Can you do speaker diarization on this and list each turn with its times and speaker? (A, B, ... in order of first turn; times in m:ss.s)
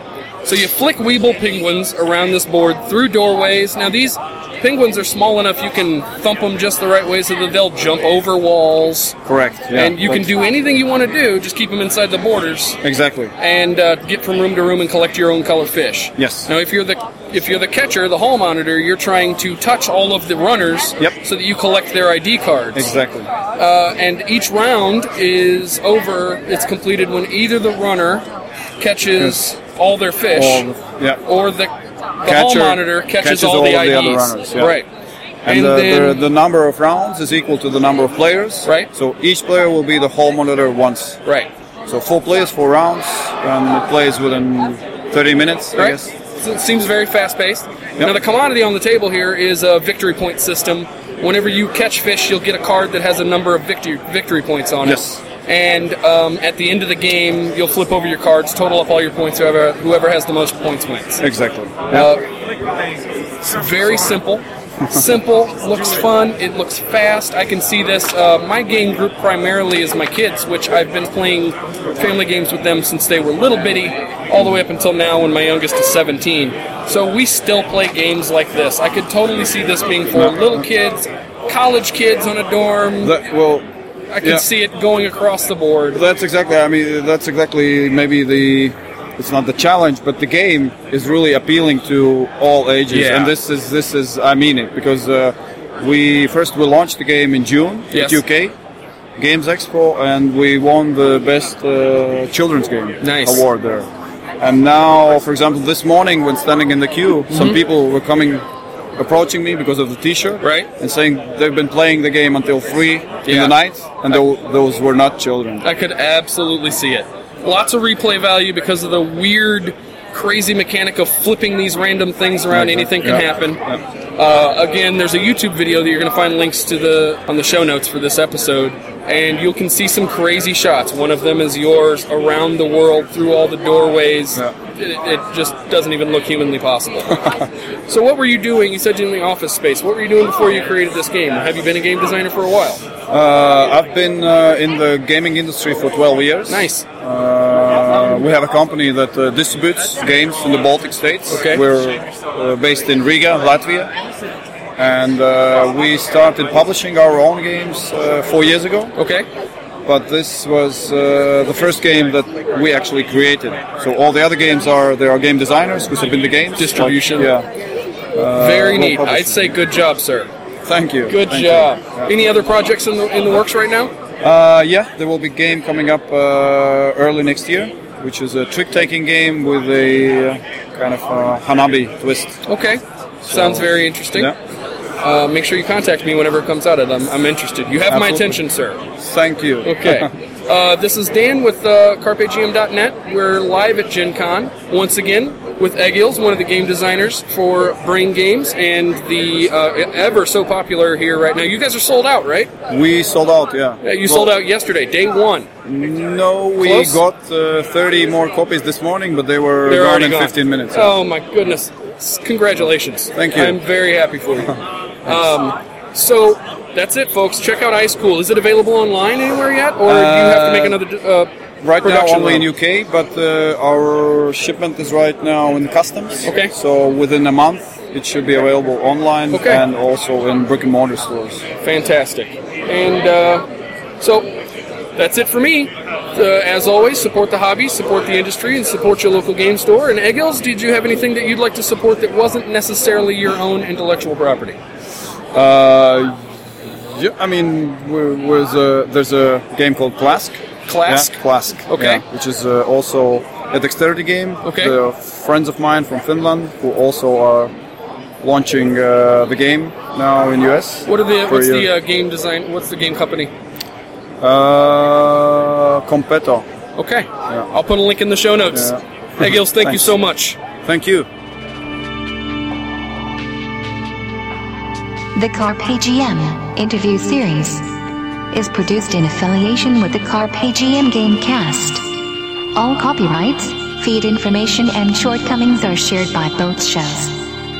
0:00.4-0:09.2 A
0:09.2-0:10.3 B
0:09.7-0:12.8 A
0:12.8-0:13.3 B
0:13.4-0:22.9 A
0:16.2-0:16.5 B
0:22.7-0:23.3 B
0:23.5-0:28.2 A
0:28.8-0:30.7 A
0:30.3-0:31.2 B
0:31.2-0:34.9 A
0:32.2-0:34.8 B
0:35.4-0:41.2 B
0:35.4-0:36.2 A
0:41.9-0:46.1 B
0:45.8-1:01.2 A
0:54.8-0:55.2 B
1:01.2-1:02.1 B
1:01.9-1:02.2 A
1:03.4-1:23.2 A
1:20.1-1:20.6 B
1:23.0-1:23.7 B
1:24.1-1:26.0 A
1:25.9-1:38.5 B
1:32.9-1:33.3 A
1:37.9-1:38.2 A
1:39.2-1:43.9 B
1:43.0-1:43.4 A
1:44.4-1:48.4 B
1:47.3-1:47.6 A
1:49.0-1:55.6 B
1:50.4-1:50.7 A
1:53.2-1:53.5 A
1:55.6-2:03.6 A
2:02.5-2:03.8 B
2:04.2-2:17.2 A
2:17.9-2:22.8 A
2:23.1-2:33.9 B
2:26.5-2:26.8 A
2:31.3-2:31.6 A
2:34.8-2:39.0 B
2:39.0-2:39.2 A
2:39.8-2:47.5 B
2:46.6-2:47.3 A
2:48.1-2:49.6 B
2:48.3-2:50.3 A
2:50.6-2:52.1 B
2:51.1-2:53.9 A
2:54.2-3:02.4 B
3:02.5-3:04.3 A
3:03.2-3:04.4 B
3:05.0-3:08.8 A
3:07.9-3:08.4 B
3:09.0-3:10.1 B
3:09.6-3:22.5 A
3:22.7-3:24.3 B
3:23.8-3:25.5 A
3:25.6-3:31.0 B
3:26.6-3:27.0 A
3:29.6-3:41.3 A
3:33.1-3:33.6 B
3:39.8-3:40.8 B
3:41.6-3:51.4 B
3:41.8-3:42.5 A
3:46.2-3:46.5 A
3:49.3-3:49.6 A
3:51.6-3:53.4 A
3:54.0-3:54.3 A
3:55.0-4:04.6 A
4:05.3-4:17.5 B
4:10.7-4:11.1 A
4:11.7-4:12.0 A
4:14.4-4:14.8 A
4:18.2-4:21.7 B
4:20.8-4:23.3 A
4:24.2-4:26.5 B
4:26.8-4:30.4 A
4:28.5-4:29.9 B
4:30.6-4:31.1 B
4:35.1-4:41.9 C
4:42.5-4:47.3 C